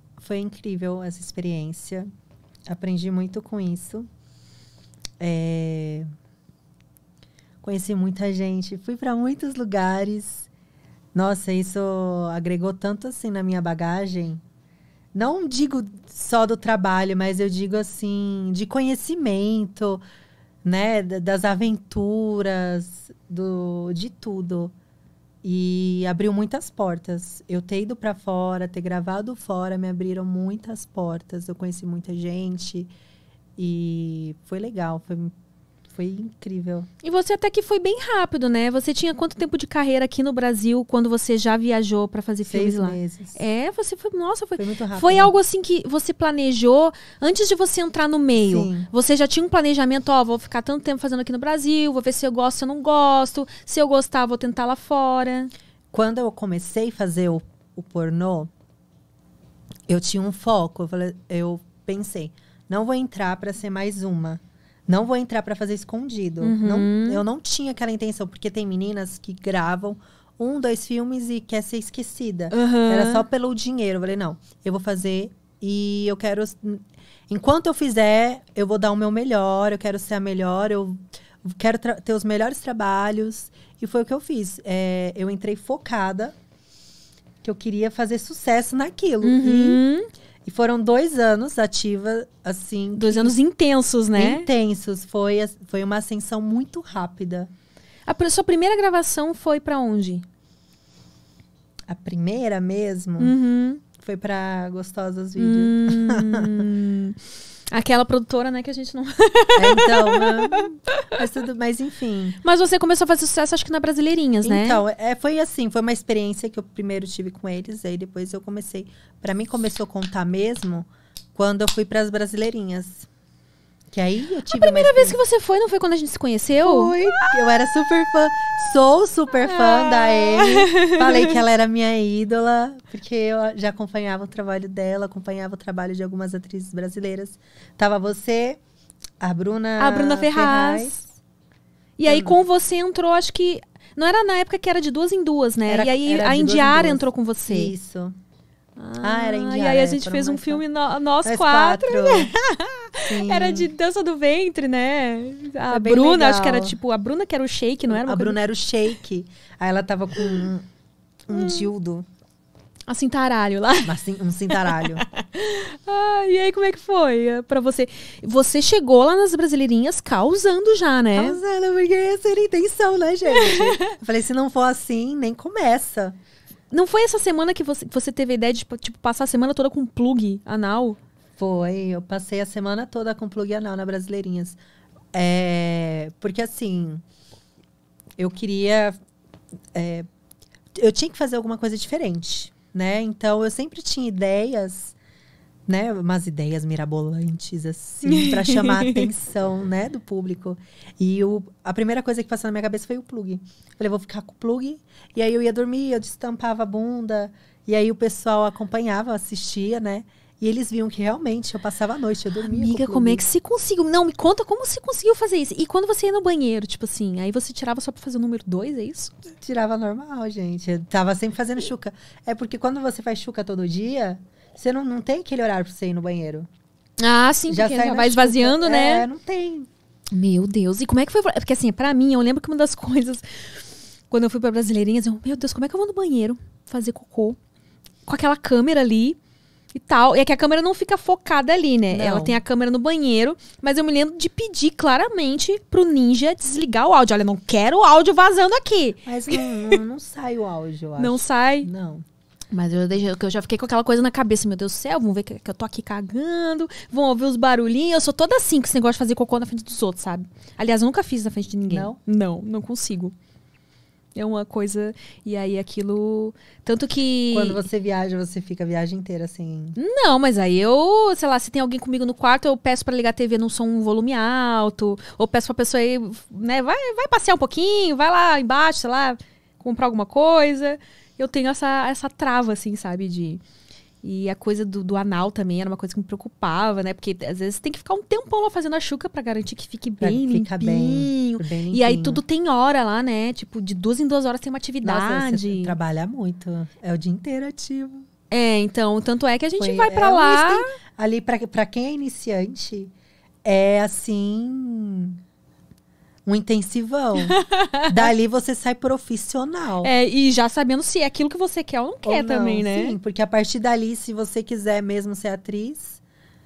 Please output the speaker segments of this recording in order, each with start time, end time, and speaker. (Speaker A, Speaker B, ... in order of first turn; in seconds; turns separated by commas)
Speaker A: 0.2-2.1, Speaker A: 2.7-4.1, Speaker A: 5.2-6.1, Speaker A: 7.6-10.5, Speaker A: 11.1-14.4, Speaker A: 15.1-20.0, Speaker A: 20.6-24.7, Speaker A: 25.4-32.9, Speaker A: 33.6-35.3, Speaker A: 35.9-36.9, Speaker B: 37.0-55.5, Speaker A: 42.4-43.4, Speaker A: 44.6-45.3, Speaker A: 48.3-48.9, Speaker A: 55.9-58.5, Speaker A: 59.9-86.3, Speaker B: 66.4-67.2, Speaker B: 72.5-73.2, Speaker A: 87.4-89.8, Speaker B: 89.2-90.1, Speaker A: 90.4-93.4, Speaker B: 93.0-94.5, Speaker A: 94.1-97.5, Speaker B: 98.0-100.2, Speaker A: 101.9-103.3, Speaker B: 103.2-103.8, Speaker A: 104.0-106.6, Speaker B: 105.4-110.6, Speaker A: 109.5-112.4, Speaker B: 112.4-114.8, Speaker A: 114.4-123.1, Speaker A: 123.9-125.2, Speaker B: 124.5-127.3, Speaker A: 126.6-138.6, Speaker B: 129.4-131.4, Speaker A: 139.2-141.0, Speaker B: 139.8-141.1, Speaker B: 142.0-147.7, Speaker A: 142.1-142.4, Speaker A: 145.7-148.1, Speaker B: 148.8-158.4, Speaker A: 149.0-150.6, Speaker A: 151.2-152.3, Speaker A: 153.0-153.7, Speaker A: 155.7-156.8, Speaker A: 157.9-160.7, Speaker B: 160.2-160.4, Speaker A: 161.3-162.0, Speaker B: 161.3-161.7, Speaker B: 162.9-163.9, Speaker A: 163.8-165.0, Speaker B: 164.5-171.4, Speaker A: 171.1-176.2, Speaker B: 173.3-173.9, Speaker B: 176.7-181.0, Speaker A: 181.4-184.6, Speaker A: 185.1-187.0, Speaker A: 188.2-189.0, Speaker A: 189.7-190.1, Speaker A: 190.8-194.9, Speaker A: 195.7-213.2, Speaker B: 198.0-199.1, Speaker B: 212.4-219.1, Speaker A: 219.4-226.5, Speaker B: 227.0-229.1, Speaker A: 227.5-229.7, Speaker B: 230.1-237.4, Speaker B: 238.1-239.2, Speaker B: 239.7-249.8, Speaker A: 241.9-242.4, Speaker A: 249.0-252.0, Speaker B: 251.0-251.7, Speaker B: 252.5-263.1, Speaker A: 261.7-262.0, Speaker B: 264.1-267.6, Speaker A: 267.3-269.8, Speaker B: 269.8-283.4, Speaker B: 284.0-295.8, Speaker A: 290.0-292.2, Speaker A: 294.8-298.0, Speaker B: 298.3-300.7, Speaker A: 299.6-302.9, Speaker A: 303.4-305.2, Speaker A: 306.2-309.9, Speaker B: 307.2-308.1, Speaker B: 309.8-313.0, Speaker A: 312.0-316.0